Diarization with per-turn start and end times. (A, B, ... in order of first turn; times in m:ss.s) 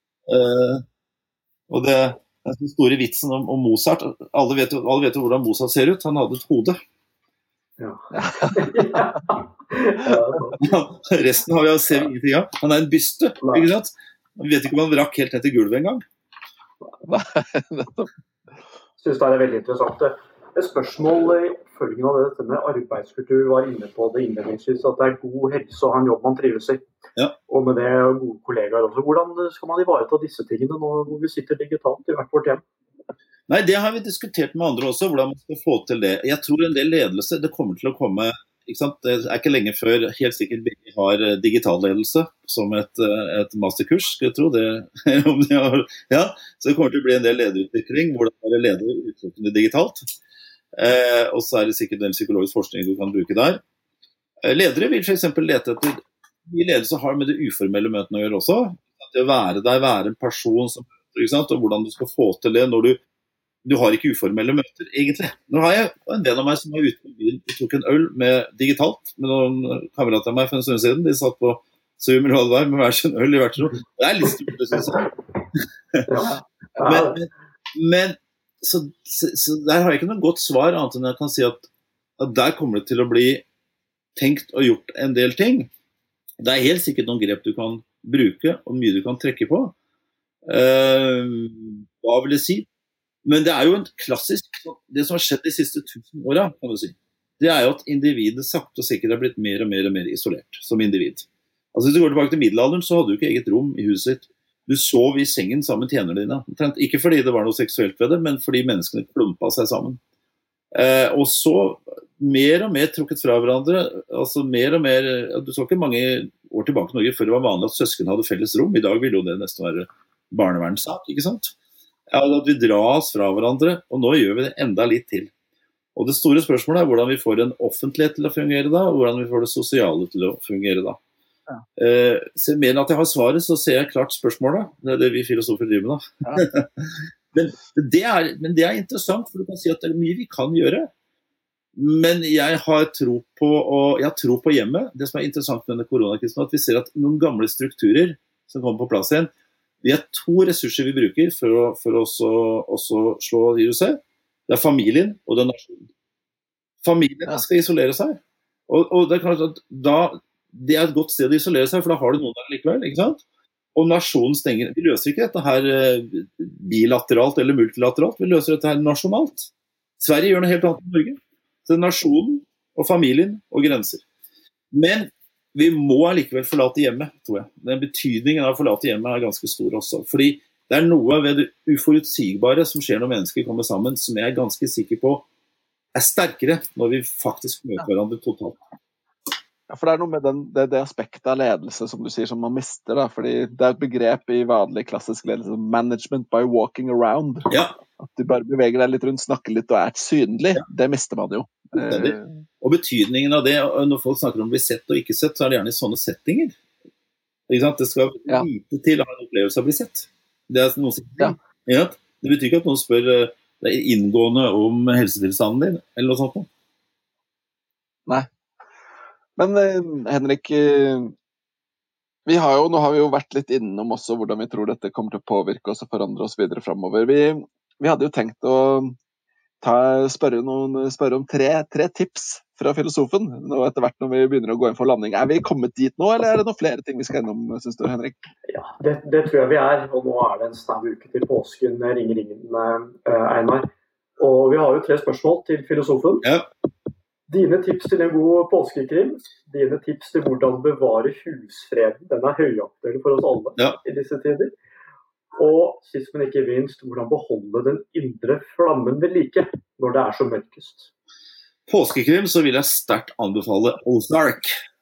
0:00.3-0:00.8 A
0:01.7-0:06.8 A
0:07.8-0:10.6 B
0:08.1-0:09.0 C
0:10.6-0:16.0 A
0:13.4-0:13.7 B
0:17.0-0:18.1 C
0:19.0-0:26.8 B
0:27.5-0:32.6 B
0:33.5-0:50.0 A
0:50.8-0:53.6 A
0:54.4-1:03.0 A
1:03.6-1:15.1 A
1:16.1-1:17.2 B
1:16.8-1:21.7 A
1:22.2-1:23.4 A
1:24.2-1:25.7 A
1:26.4-1:29.7 A
1:30.5-1:32.7 A
1:33.2-1:50.0 A
1:50.7-2:01.5 A
2:02.1-2:05.3 A
2:06.0-2:11.0 A
2:11.8-2:20.9 A
2:21.7-2:29.3 A
2:29.8-2:35.9 A
2:36.8-2:43.2 A
2:43.7-2:54.0 A
2:54.7-3:05.2 A
3:05.9-3:08.6 A
3:09.7-3:22.4 C
3:17.5-3:17.8 A
3:21.8-3:26.5 A
3:27.5-3:36.5 A
3:39.4-3:41.1 C
3:42.2-3:49.0 C
3:49.6-3:58.2 C
3:58.5-4:03.6 B
4:04.2-4:06.2 B
4:07.3-4:14.5 B
4:15.4-4:20.9 B
4:21.7-4:24.5 A